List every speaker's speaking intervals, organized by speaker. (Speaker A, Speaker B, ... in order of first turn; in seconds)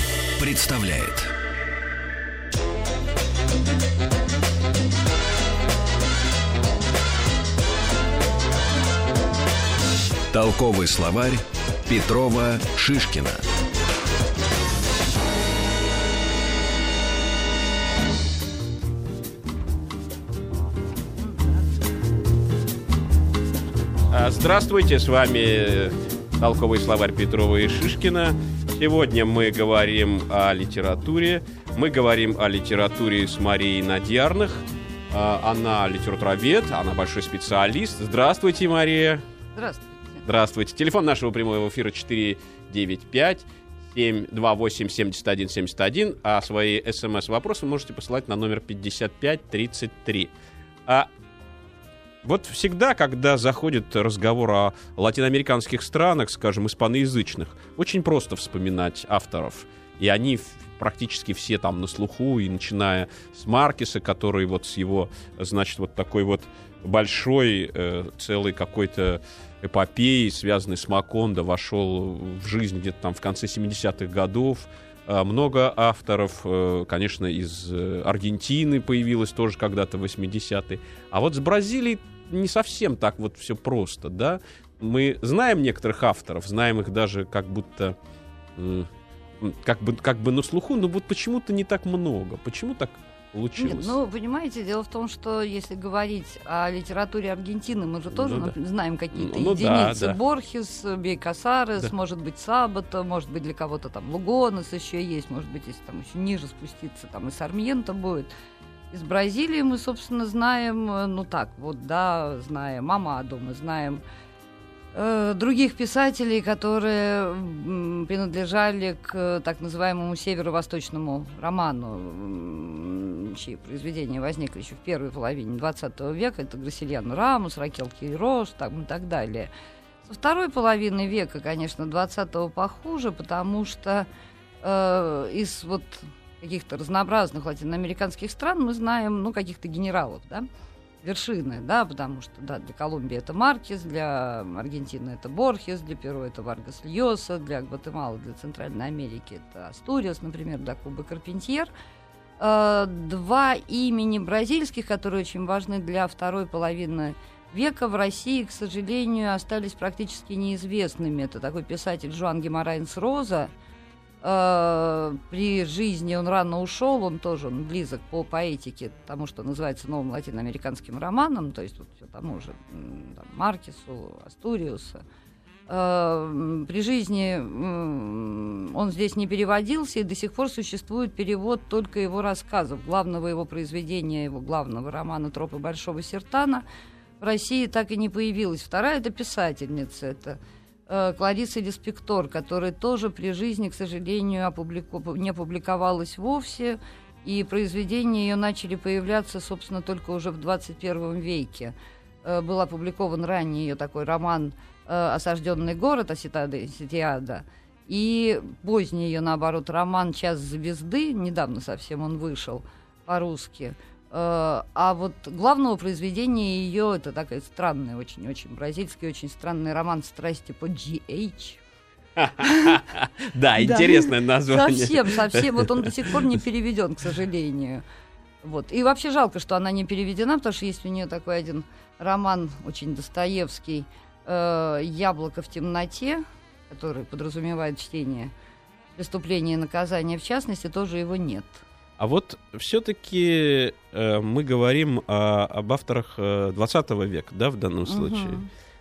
Speaker A: 0.4-1.3, 10.3-13.4
Speaker B: 24.1-39.2, 40.2-50.3, 52.2-88.0, 88.6-88.9, 89.4-93.9, 98.1-98.5, 99.1-100.2, 222.2-226.2, 242.0-248.4
Speaker C: 39.5-40.2, 93.6-108.3, 108.9-114.0, 114.9-129.5, 130.0-134.1, 134.6-140.5, 141.0-151.7, 152.4-163.5, 164.2-175.0, 175.7-186.6, 187.2-221.6, 222.4-222.8, 223.6-227.8, 228.4-238.3, 239.0-241.6, 247.9-248.5